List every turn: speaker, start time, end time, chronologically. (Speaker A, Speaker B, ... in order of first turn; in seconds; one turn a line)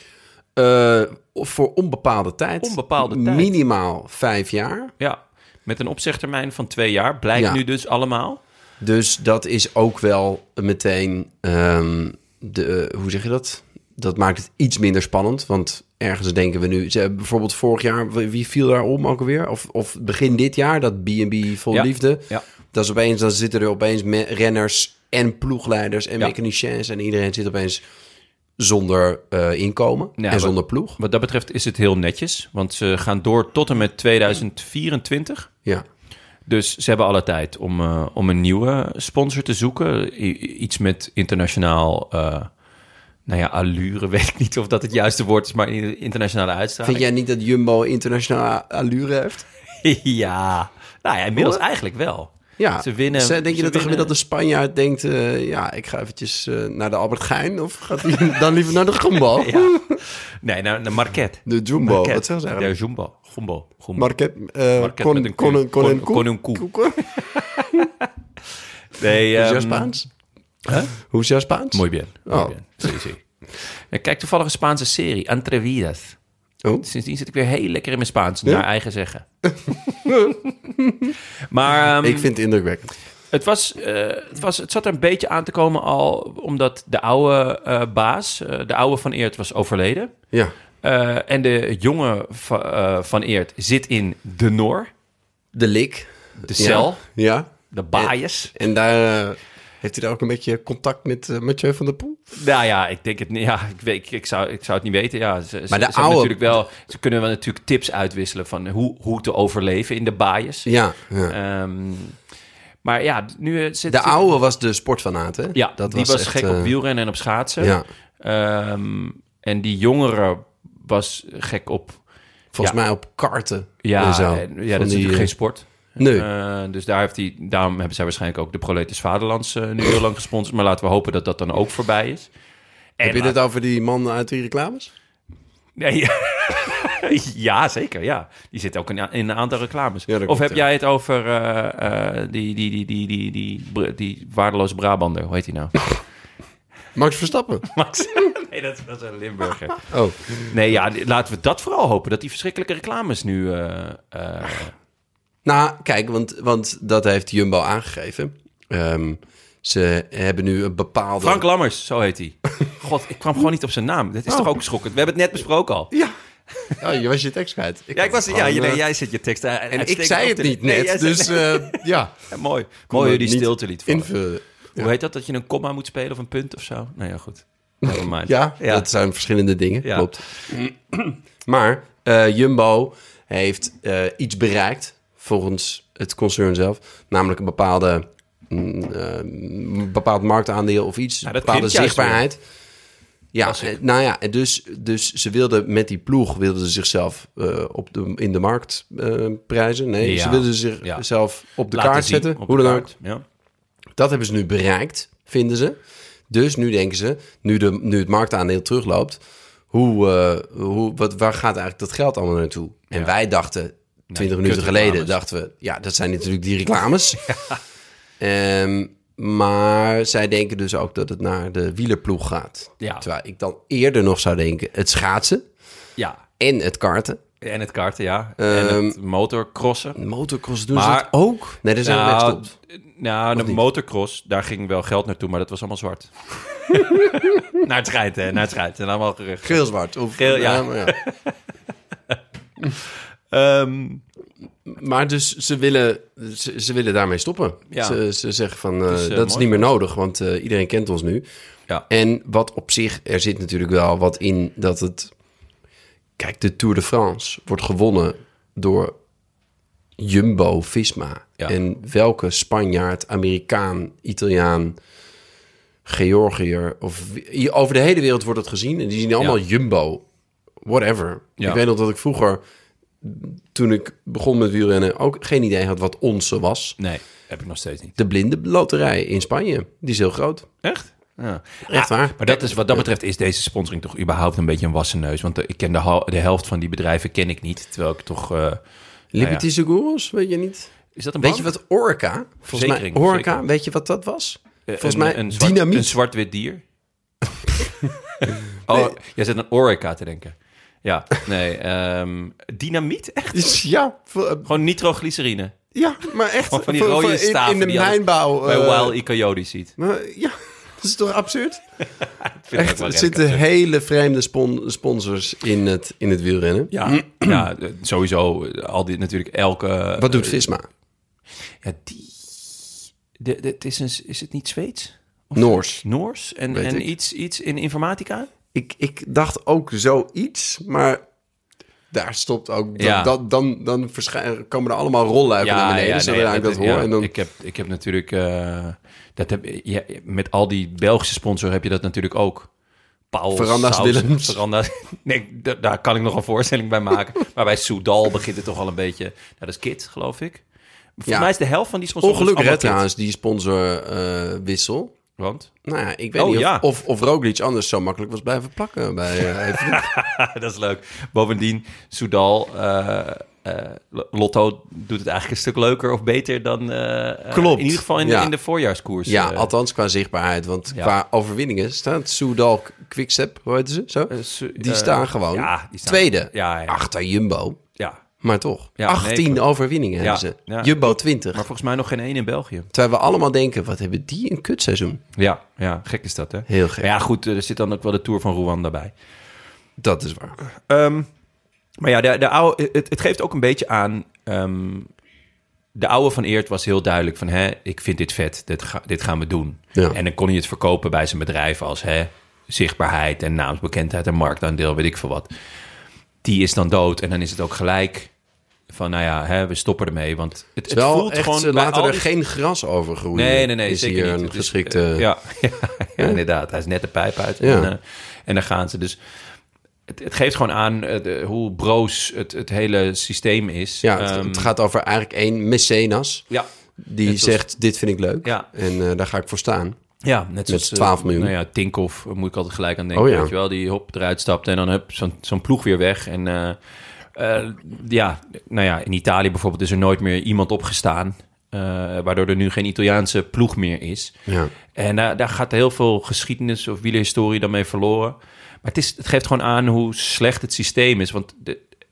Speaker A: 0.6-4.9
Speaker B: 2.6-3.5
Speaker B: 5.0-8.4
Speaker A: 7.3-7.6
Speaker A: 8.8-27.8
Speaker B: 21.7-22.4
Speaker A: 28.6-31.0
Speaker B: 30.2-35.5
Speaker B: 36.5-42.5
Speaker B: 43.3-47.0
Speaker A: 46.8-49.5
Speaker B: 49.8-54.1
Speaker A: 51.4-51.6
Speaker A: 52.6-60.0
Speaker B: 59.3-64.1
Speaker A: 61.5-62.7
Speaker A: 64.0-67.0
Speaker B: 64.8-68.1
Speaker B: 69.0-69.9
Speaker A: 69.3-70.1
Speaker B: 70.7-70.9
Speaker A: 71.0-72.9
Speaker B: 71.7-76.2
Speaker B: 76.8-79.2
Speaker A: 80.0-81.1
Speaker B: 80.1-80.5
Speaker B: 81.5-82.3
Speaker A: 82.0-82.9
Speaker B: 83.3-90.1
Speaker B: 90.8-94.9
Speaker A: 95.5-102.2
Speaker B: 96.4-97.0
Speaker B: 97.7-98.5
Speaker B: 102.3-110.7
Speaker A: 105.7-106.5
Speaker A: 110.7-111.3
Speaker B: 111.3-112.2
Speaker B: 112.8-114.2
Speaker A: 113.9-116.7
Speaker B: 115.5-122.0
Speaker A: 117.6-117.8
Speaker A: 122.5-125.3
Speaker B: 123.8-132.3
Speaker A: 126.0-126.3
Speaker B: 133.0-133.3
Speaker A: 133.0-134.9
Speaker B: 135.8-145.9
Speaker A: 140.1-140.6
Speaker A: 146.9-147.7
Speaker B: 147.7-149.9
Speaker A: 149.9-150.4
Speaker B: 150.5-154.7
Speaker A: 155.4-161.4
Speaker B: 161.2-165.9
Speaker A: 166.8-168.8
Speaker B: 167.9-174.1
Speaker A: 169.7-172.2
Speaker A: 172.9-174.9
Speaker B: 174.8-178.9
Speaker A: 177.8-192.4
Speaker B: 179.8-180.1
Speaker B: 191.2-192.2
Speaker A: 193.3-202.9
Speaker B: 193.4-193.8
Speaker B: 200.0-201.0
Speaker B: 201.7-203.2
Speaker A: 203.9-205.8
Speaker A: 206.3-209.2
Speaker A: 209.7-217.2
Speaker B: 214.1-215.2
Speaker A: 218.2-225.4
Speaker B: 222.8-223.1
Speaker A: 226.4-227.2
Speaker B: 227.4-230.0
Speaker A: 228.4-229.0
Speaker A: 230.0-232.5
Speaker B: 230.7-231.1
Speaker B: 231.8-239.6
Speaker A: 233.3-233.6
Speaker A: 239.4-241.0
Speaker B: 240.2-241.3
Speaker B: 243.3-244.0
Speaker A: 244.7-251.2
Speaker B: 247.7-248.0
Speaker B: 248.9-249.6
Speaker A: 251.9-255.1
Speaker A: 256.2-258.9
Speaker A: 260.0-264.8
Speaker A: 265.8-270.0
Speaker A: 270.6-272.4
Speaker A: 273.0-276.8
Speaker B: 276.8-277.9
Speaker A: 278.0-280.5
Speaker B: 280.6-288.6
Speaker A: 281.7-282.9
Speaker A: 289.1-295.9
Speaker B: 289.1-289.4
Speaker B: 290.9-291.5
Speaker B: 292.5-293.4
Speaker B: 294.7-296.6
Speaker B: 298.7-303.6
Speaker A: 298.7-298.9
Speaker A: 303.3-304.5
Speaker B: 304.4-305.6
Speaker A: 305.7-309.0
Speaker B: 306.5-309.7
Speaker A: 309.8-311.6
Speaker B: 312.2-313.4
Speaker A: 312.5-317.4
Speaker B: 316.7-320.3
Speaker A: 320.0-320.7
Speaker B: 321.6-328.3
Speaker A: 325.3-325.8
Speaker A: 326.5-326.9
Speaker A: 328.5-331.0
Speaker A: 331.9-337.1
Speaker B: 332.8-333.1
Speaker B: 335.4-342.5
Speaker B: 343.1-350.4
Speaker A: 343.3-344.4
Speaker B: 351.0-352.8
Speaker A: 352.0-354.9
Speaker B: 355.2-355.5
Speaker A: 355.6-359.9
Speaker B: 356.2-356.6
Speaker B: 359.5-369.5
Speaker A: 367.3-368.3
Speaker A: 369.1-377.6
Speaker B: 374.1-376.8
Speaker A: 378.2-381.4
Speaker B: 378.8-379.4
Speaker B: 380.0-382.7
Speaker A: 382.7-385.0
Speaker B: 385.2-388.9
Speaker A: 386.5-386.9
Speaker A: 389.8-390.4
Speaker B: 390.7-391.1
Speaker B: 391.8-394.9
Speaker B: 395.7-405.3
Speaker B: 406.2-408.1
Speaker B: 408.7-412.1
Speaker A: 410.7-415.1
Speaker B: 413.1-419.0
Speaker A: 417.4-417.7
Speaker B: 419.9-424.5
Speaker A: 423.8-426.2
Speaker A: 426.8-429.8
Speaker B: 427.0-427.4
Speaker B: 430.0-436.6
Speaker A: 430.5-431.3
Speaker A: 432.9-433.3
Speaker B: 437.1-444.1
Speaker A: 444.3-444.5
Speaker B: 444.8-451.6